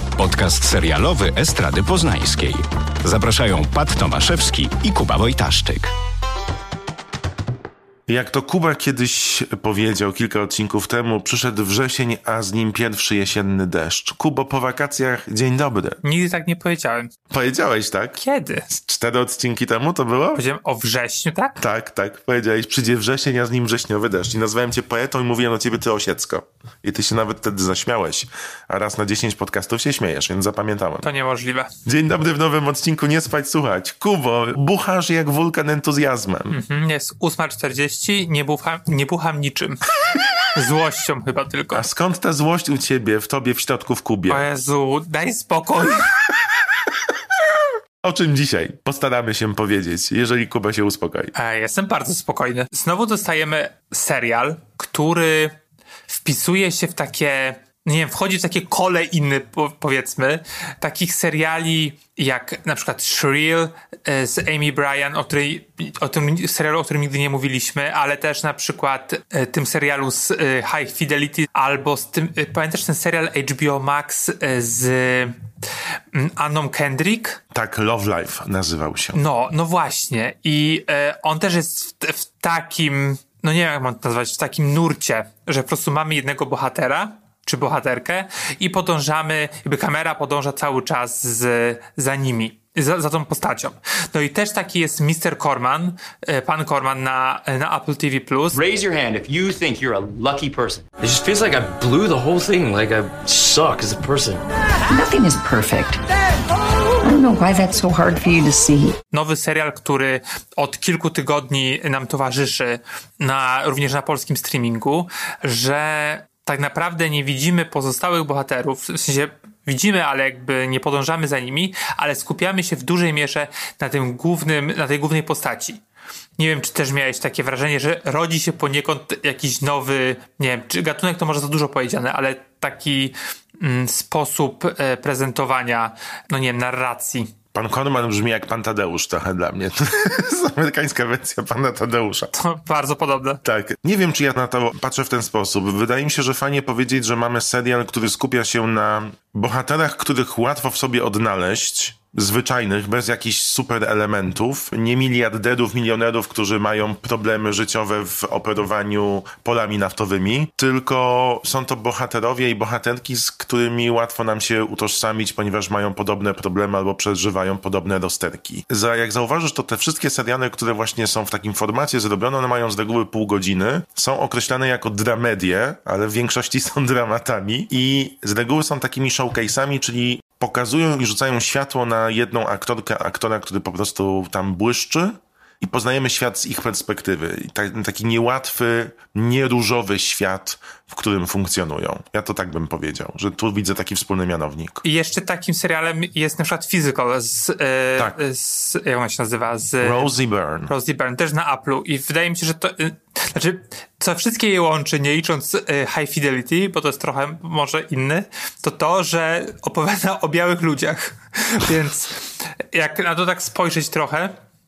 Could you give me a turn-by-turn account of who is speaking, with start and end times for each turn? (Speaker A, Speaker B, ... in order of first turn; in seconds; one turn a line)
Speaker A: 0.2-5.9
Speaker B: 8.1-16.0
Speaker C: 16.0-17.1
Speaker B: 17.3-18.2
Speaker C: 18.2-18.7
Speaker B: 18.7-20.4
Speaker C: 20.4-21.6
Speaker B: 21.6-31.1
Speaker C: 31.0-31.7
Speaker B: 31.9-36.6
Speaker C: 36.5-39.8
Speaker C: 40.5-41.9
Speaker B: 41.7-44.5
Speaker C: 44.3-46.1
Speaker B: 48.0-51.3
Speaker C: 51.4-55.6
Speaker C: 56.1-75.4
Speaker C: 76.1-77.4
Speaker B: 77.5-79.2
Speaker C: 79.2-98.6
Speaker D: 98.5-104.4
Speaker E: 104.9-106.0
Speaker E: 107.0-109.0
Speaker C: 109.1-125.8
Speaker C: 126.4-137.3
Speaker B: 137.5-142.3
Speaker C: 142.3-143.4
Speaker B: 143.4-194.8
Speaker C: 194.8-200.1
Speaker B: 199.8-200.7
Speaker C: 200.7-214.3